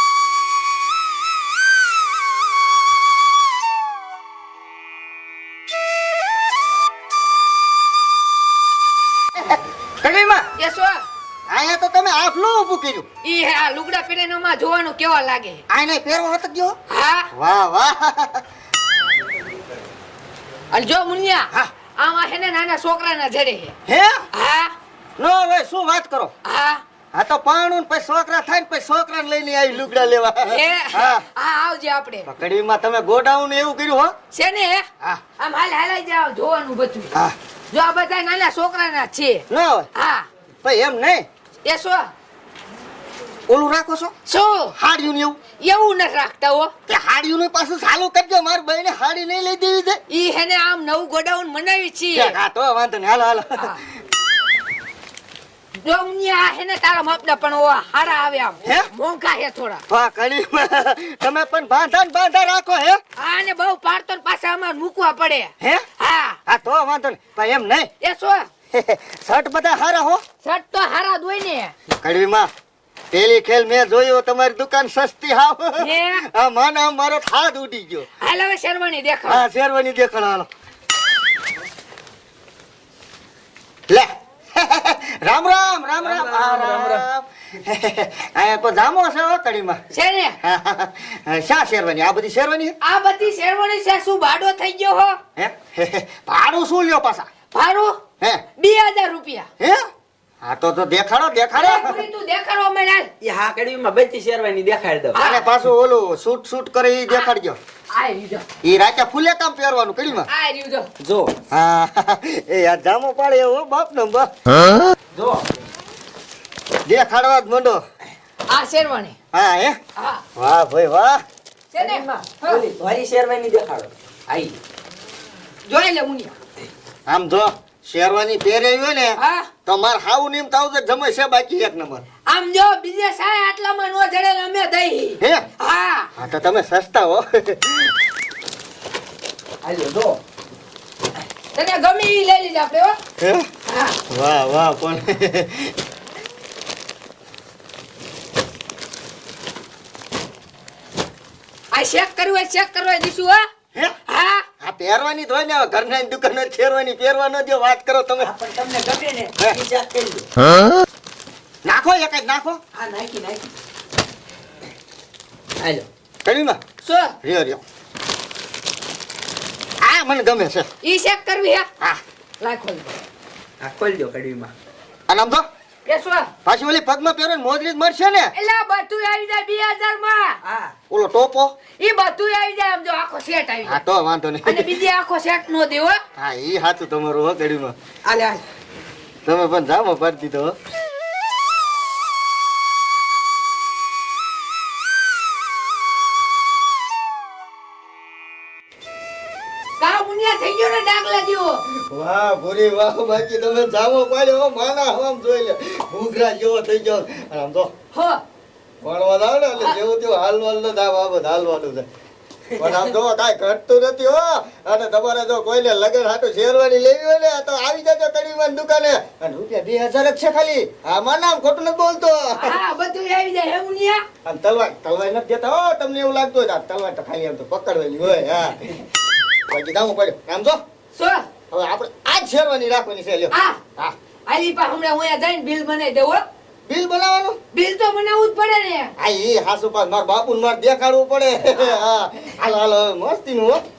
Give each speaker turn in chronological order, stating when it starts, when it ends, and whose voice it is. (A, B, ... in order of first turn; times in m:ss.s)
0:09.4-0:10.5 A
0:10.6-0:11.0 B
0:11.5-0:13.1 A
0:13.2-0:15.6 B
0:15.7-0:16.8 A
0:16.9-0:17.3 B
0:17.3-0:18.4 A
0:20.7-0:23.8 B
0:23.9-0:24.2 A
0:24.3-0:24.7 B
0:25.2-0:26.3 A
0:26.4-0:26.8 B
0:27.1-0:31.2 A
0:30.5-0:32.3 B
0:32.3-0:34.1 A
0:34.3-0:34.9 B
0:35.4-0:37.1 B
0:37.7-0:40.3 B
0:39.5-0:39.9 A
0:40.6-0:41.2 A
0:41.6-0:42.1 B
0:43.5-0:44.1 A
0:44.3-0:44.7 B
0:44.8-0:45.4 A
0:45.6-0:46.7 B
0:46.9-0:50.0 A
0:50.1-0:52.4 B
0:52.2-0:53.7 A
0:55.8-0:59.8 B
0:59.9-1:03.0 A
1:03.2-1:06.4 B
1:06.5-1:07.9 A
1:08.0-1:08.5 B
1:08.7-1:10.2 A
1:10.4-1:11.7 B
1:12.0-1:12.5 A
1:13.1-1:18.1 A
1:15.8-1:16.2 B
1:18.2-1:19.4 B
1:19.3-1:20.5 A
1:23.9-1:29.8 A
1:26.0-1:27.0 C
1:29.9-1:30.4 B
1:30.4-1:32.7 A
1:32.8-1:35.2 B
1:35.4-1:37.3 A
1:37.5-1:37.9 B
1:38.6-1:39.5 B
1:40.4-1:42.0 A
1:41.6-1:43.1 B
1:43.2-1:45.2 C
1:45.2-1:45.4 B
1:45.2-1:47.6 A
1:47.9-1:48.4 B
1:48.6-1:50.3 A
1:50.3-1:50.9 B
1:51.0-1:51.4 C
1:51.5-1:54.3 A
1:55.1-1:55.5 C
1:56.9-1:57.8 A
1:58.5-1:59.2 B
1:59.3-1:59.8 A
2:00.0-2:00.2 B
2:00.4-2:01.2 A
2:01.7-2:02.6 B
2:01.8-2:04.6 C
2:05.7-2:06.4 B
2:07.1-2:12.0 A
2:09.2-2:09.5 B
2:12.3-2:16.1 B
2:16.2-2:17.9 A
2:19.6-2:20.2 C
2:21.5-2:23.0 B
2:23.2-2:23.5 A
2:23.7-2:24.0 B
2:24.1-2:25.7 A
2:31.7-2:33.4 B
2:34.1-2:34.5 B
2:34.6-2:38.3 A
2:38.2-2:40.3 C
2:41.6-2:42.6 A
2:42.7-2:43.5 C
2:45.6-2:45.9 C
2:46.2-2:46.6 A
2:46.8-2:47.2 B
2:47.2-2:47.6 A
2:49.8-2:50.7 A
2:50.8-2:51.7 B
2:52.4-2:53.0 B
2:53.6-2:54.5 C
2:55.1-2:55.4 A
2:55.9-2:56.3 B
2:56.4-2:58.3 A
2:58.3-3:00.4 B
3:00.4-3:00.8 C
3:00.9-3:01.5 A
3:01.8-3:03.8 B
3:03.7-3:04.8 A
3:04.4-3:06.0 B
3:06.2-3:07.7 A
3:08.1-3:08.4 C
3:09.2-3:10.5 A
3:19.8-3:21.6 B
3:21.8-3:27.7 A
3:27.9-3:28.2 B
3:28.8-3:31.9 A
3:32.6-3:42.6 A
3:42.4-3:44.0 B
3:44.2-3:48.8 A
3:49.5-3:50.6 A
3:50.9-3:51.3 B
3:51.5-3:53.9 A
3:53.3-3:53.6 B
3:54.3-3:56.2 B
3:56.7-3:57.4 A
3:57.5-3:58.9 B
3:59.0-4:03.6 A